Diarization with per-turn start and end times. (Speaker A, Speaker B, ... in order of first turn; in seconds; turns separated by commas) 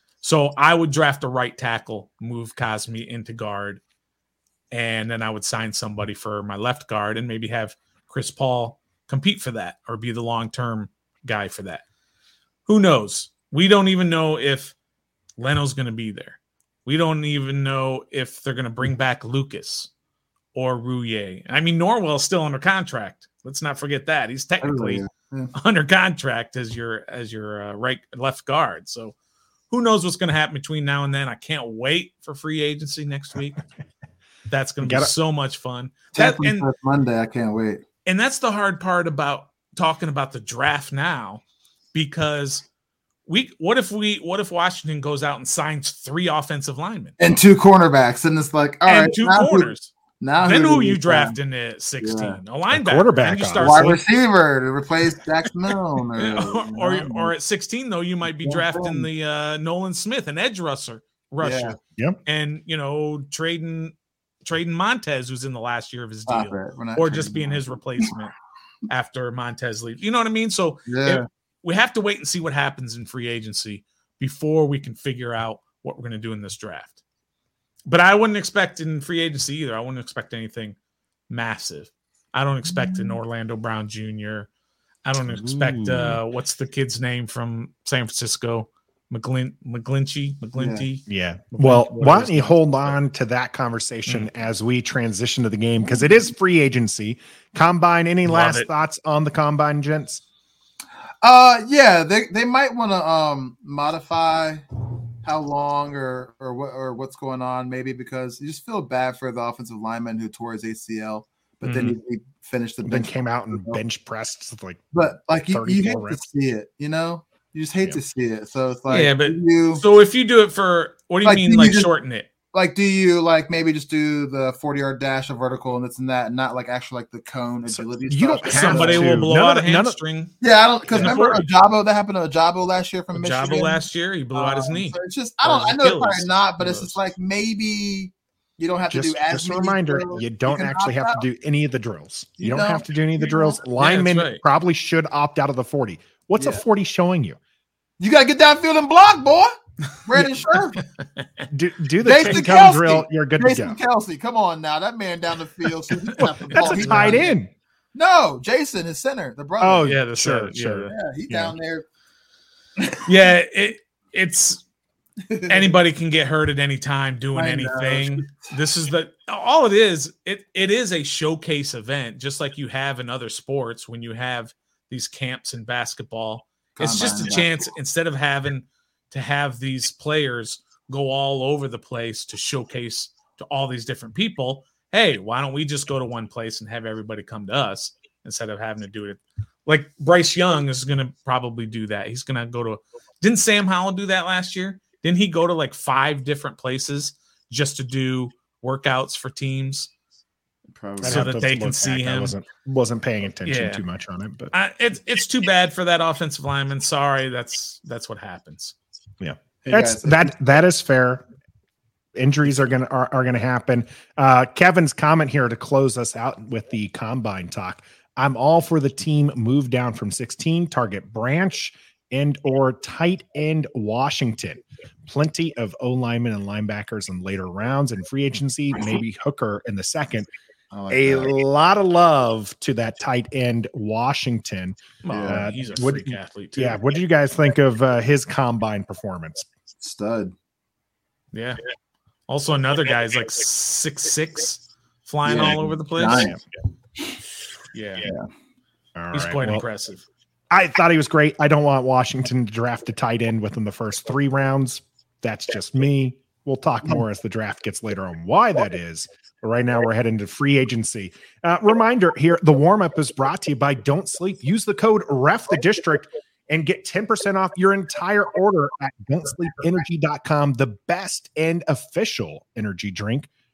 Speaker A: 0.2-3.8, Speaker A: 4.7-11.8, Speaker A: 12.7-14.7, Speaker A: 15.4-19.9, Speaker A: 20.5-29.1, Speaker B: 24.6-25.5, Speaker A: 29.7-33.6, Speaker A: 34.5-36.7, Speaker C: 34.8-35.1, Speaker B: 36.1-37.8, Speaker A: 38.0-41.4, Speaker A: 41.9-42.6, Speaker A: 43.2-47.1, Speaker B: 47.2-51.4, Speaker A: 48.9-54.0, Speaker B: 52.0-52.4, Speaker C: 52.7-54.0, Speaker B: 53.6-57.3, Speaker A: 56.2-68.3, Speaker B: 58.4-59.1, Speaker B: 61.4-61.8, Speaker B: 66.3-68.1, Speaker A: 68.9-77.0, Speaker B: 70.9-71.2, Speaker A: 77.9-80.8, Speaker A: 81.3-84.5, Speaker B: 82.8-83.1, Speaker A: 85.0-93.0, Speaker C: 85.2-86.2, Speaker B: 90.5-90.8, Speaker C: 91.1-100.2, Speaker A: 98.2-98.7, Speaker B: 101.2-104.6, Speaker B: 105.2-113.8, Speaker A: 111.6-112.0, Speaker C: 112.8-114.9, Speaker B: 114.9-119.8, Speaker C: 115.5-116.2, Speaker A: 118.9-122.3, Speaker B: 121.2-121.9, Speaker B: 122.5-129.3, Speaker C: 127.7-130.0, Speaker A: 128.5-130.3, Speaker B: 130.4-133.8, Speaker A: 130.9-131.5, Speaker C: 130.9-131.2, Speaker A: 133.1-137.0, Speaker B: 134.3-141.2, Speaker C: 138.9-147.4, Speaker B: 142.4-143.6, Speaker A: 143.8-144.4, Speaker B: 146.4-146.6, Speaker B: 148.0-149.5, Speaker B: 150.0-150.8, Speaker A: 150.8-151.5, Speaker C: 151.5-153.8, Speaker B: 152.0-157.3, Speaker C: 156.2-157.5, Speaker A: 156.5-157.1, Speaker B: 157.9-159.9, Speaker C: 159.6-161.5, Speaker A: 159.8-160.9, Speaker B: 160.9-161.8, Speaker A: 163.0-164.6, Speaker B: 165.2-165.7, Speaker A: 165.5-199.9, Speaker B: 167.3-168.5, Speaker B: 176.8-177.6, Speaker B: 200.7-201.3, Speaker C: 201.0-204.5, Speaker A: 201.0-202.3, Speaker A: 203.4-203.8, Speaker A: 204.5-208.7, Speaker C: 209.2-211.2, Speaker B: 209.6-210.3, Speaker C: 212.1-230.3, Speaker B: 230.7-231.4, Speaker C: 230.9-239.4, Speaker A: 235.0-236.8, Speaker B: 235.1-235.4, Speaker B: 239.8-240.3, Speaker A: 241.3-241.6, Speaker A: 242.3-246.3, Speaker B: 245.2-246.4, Speaker C: 246.1-246.3, Speaker A: 247.7-248.1, Speaker C: 248.9-249.6, Speaker A: 249.1-250.0, Speaker C: 250.5-273.3